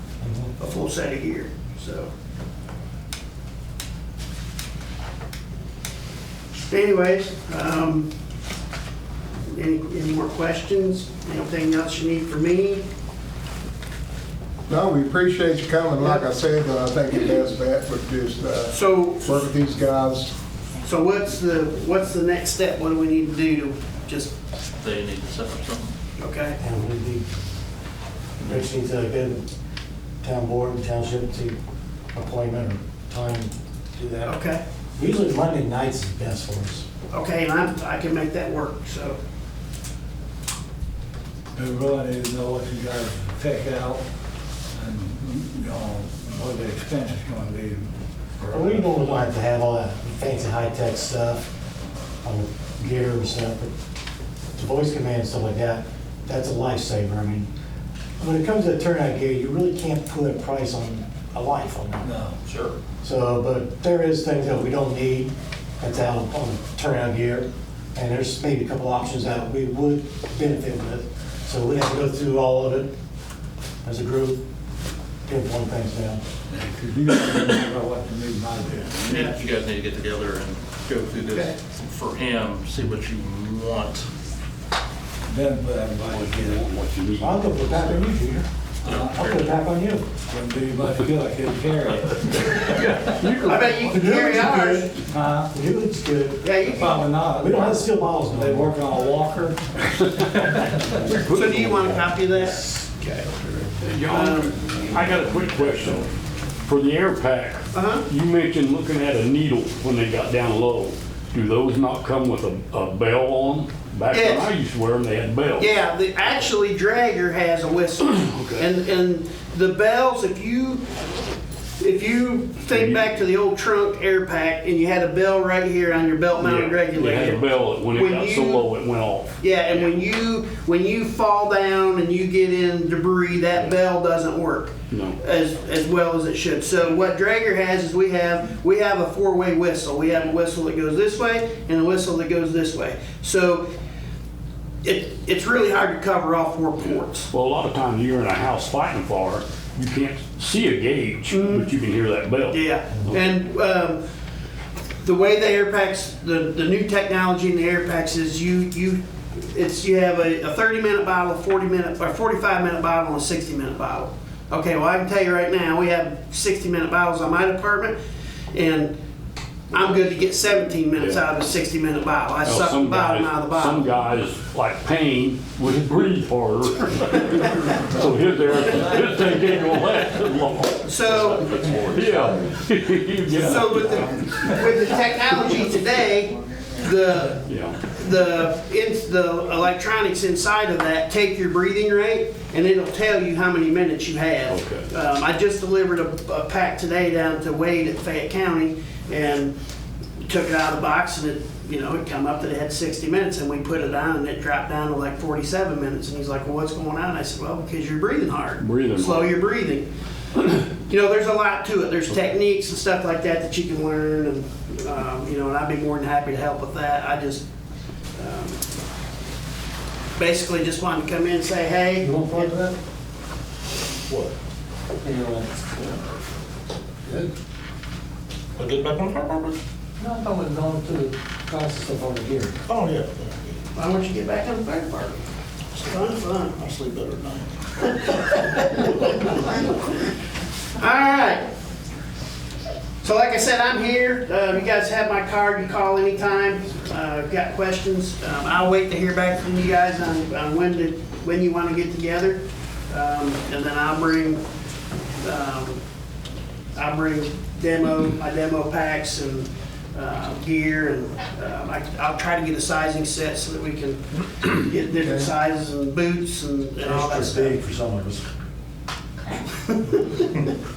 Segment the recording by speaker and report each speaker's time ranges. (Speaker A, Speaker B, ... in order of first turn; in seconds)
Speaker A: 0.2-0.5, 26.6-27.2, 28.4-29.4, 30.2-31.6, 32.1-34.4, 35.0-36.9, 48.5-51.4, 52.2-53.7, 54.5-57.5, 58.2-62.1, 63.0-72.9, 73.8-74.4, 75.2-76.2, 87.2-90.0, 93.9-94.9, 95.5-96.4, 97.4-98.8, 102.8-103.7, 222.1-222.7, 225.0-225.7, 230.0-232.5, 266.8-268.2
Speaker B: 0.6-2.1, 6.7-8.1, 9.5-12.8, 16.0-16.2, 18.7-19.4, 20.8-24.3, 26.2-26.6, 34.2-34.6, 37.1-39.2, 79.1-79.3, 93.4-94.9, 96.4-97.1, 101.3-102.6, 104.1-104.6, 107.7-108.0, 114.1-114.5, 115.6-120.8, 121.8-128.7, 129.4-143.7, 144.8-147.3, 151.3-151.7, 152.5-154.0, 155.0-167.9, 168.5-168.9, 169.7-173.9, 177.5-177.8, 180.8-181.7, 183.3-199.5, 200.2-209.9, 210.5-217.4, 218.2-218.6, 220.2-222.5, 233.7-235.2, 235.8-236.5, 238.0-239.8, 240.8-241.5, 243.0-254.4, 255.2-255.8, 256.7-267.6, 269.5-270.5
Speaker C: 14.7-20.3, 265.0-265.3
Speaker D: 24.8-25.9, 62.5-62.8, 78.7-84.1, 88.8-89.6, 91.9-92.4, 224.1-224.3, 228.6-229.6, 232.7-233.6, 235.8-238.1
Speaker E: 41.5-44.0, 44.7-48.9, 62.0-62.4, 76.5-79.2, 85.3-86.6, 88.8-89.3, 90.3-92.6, 95.0-95.5, 96.6-99.6
Speaker F: 86.1-88.0, 92.3-94.1, 99.9-102.1, 103.8-106.1, 106.6-115.7, 118.1-118.7, 122.7-123.2, 126.4-129.3, 134.9-135.2, 147.3-153.2, 171.0-171.2, 172.4-184.5, 187.4-187.8, 194.5-194.8, 208.6-209.3